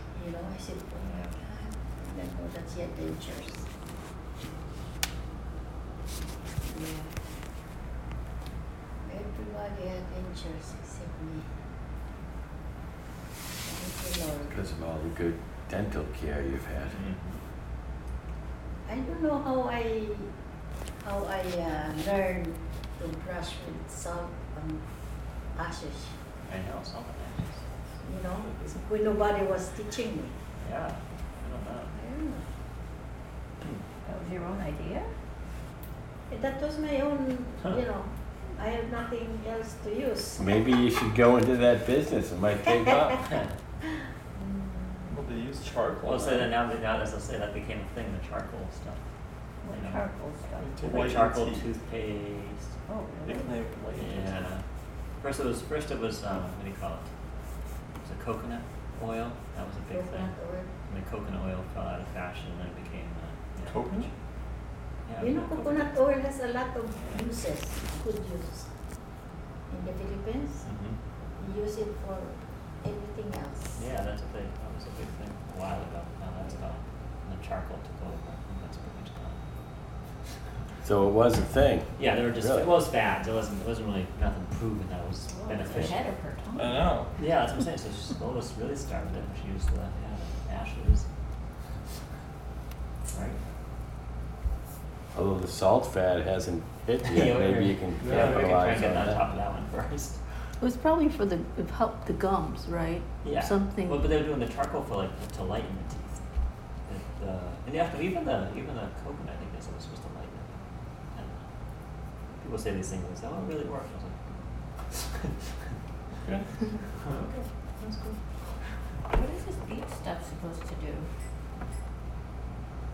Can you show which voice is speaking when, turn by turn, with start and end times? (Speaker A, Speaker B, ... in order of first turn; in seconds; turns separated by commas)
Speaker A: 0.1-3.7, Speaker B: 1.0-1.4, Speaker A: 6.6-7.1, Speaker A: 9.0-11.5, Speaker A: 13.6-14.5, Speaker C: 14.5-17.0, Speaker B: 16.9-17.4, Speaker A: 18.9-20.3, Speaker A: 21.0-24.8, Speaker A: 25.5-26.1, Speaker B: 26.4-27.6, Speaker A: 28.0-30.4, Speaker B: 30.6-31.9, Speaker A: 31.9-32.5, Speaker D: 34.0-35.1, Speaker A: 36.3-40.6, Speaker C: 40.4-43.4, Speaker A: 42.6-43.4, Speaker A: 43.9-45.2, Speaker E: 45.1-46.5, Speaker B: 46.0-49.0, Speaker D: 49.6-50.6, Speaker B: 49.7-50.0, Speaker E: 50.6-51.7, Speaker B: 50.8-52.7, Speaker D: 52.9-53.5, Speaker E: 53.2-54.5, Speaker B: 54.0-54.6, Speaker B: 55.2-57.0, Speaker B: 58.0-60.3, Speaker A: 59.9-60.7, Speaker B: 60.9-64.1, Speaker E: 63.6-64.1, Speaker B: 65.1-66.0, Speaker A: 65.2-68.7, Speaker B: 67.0-67.3, Speaker A: 69.7-70.6, Speaker B: 70.6-71.0, Speaker A: 71.4-73.8, Speaker B: 73.8-79.4, Speaker C: 80.8-82.7, Speaker B: 82.0-86.1, Speaker D: 85.3-86.9, Speaker E: 86.5-87.1, Speaker B: 87.2-91.0, Speaker B: 93.1-93.4, Speaker C: 95.1-99.2, Speaker B: 97.0-100.2, Speaker E: 98.0-98.6, Speaker F: 100.6-104.0, Speaker B: 103.2-106.2, Speaker B: 106.9-110.6, Speaker B: 111.1-111.4, Speaker B: 112.3-114.2, Speaker B: 114.9-115.3, Speaker B: 117.1-118.1, Speaker D: 119.1-121.1